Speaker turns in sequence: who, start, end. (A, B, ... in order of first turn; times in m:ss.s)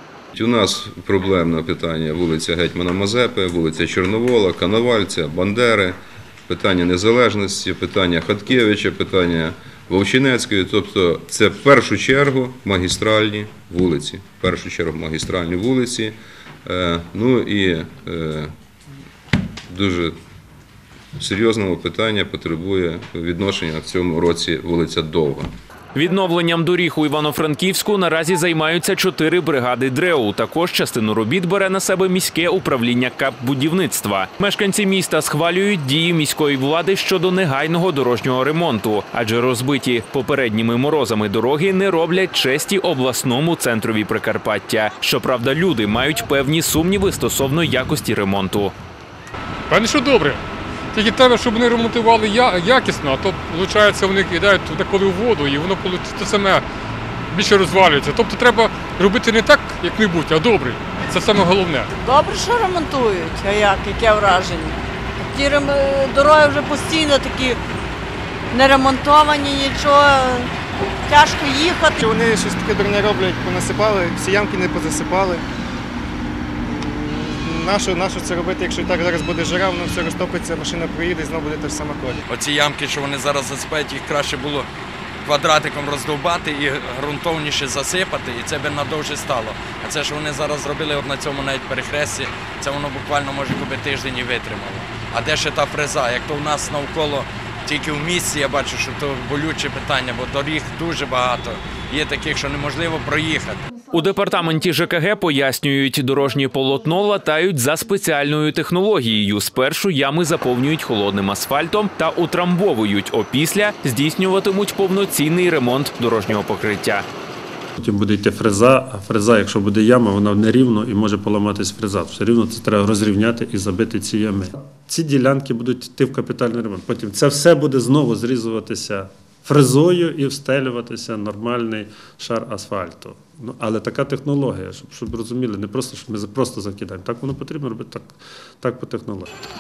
0:00.3-0:18.5 A
0:19.7-0:20.2 A
0:21.2-0:25.5 A
0:25.9-0:48.7 B
0:49.7-0:50.4 C
0:50.9-0:56.6 C
0:57.3-1:01.9 C
1:02.0-1:07.6 D
1:08.5-1:10.5 D
1:11.1-1:11.9 D
1:12.0-1:15.4 E
1:16.6-1:22.2 E
1:22.3-1:24.7 F
1:25.2-1:43.6 F
1:43.9-1:57.1 B
1:57.8-2:19.3 G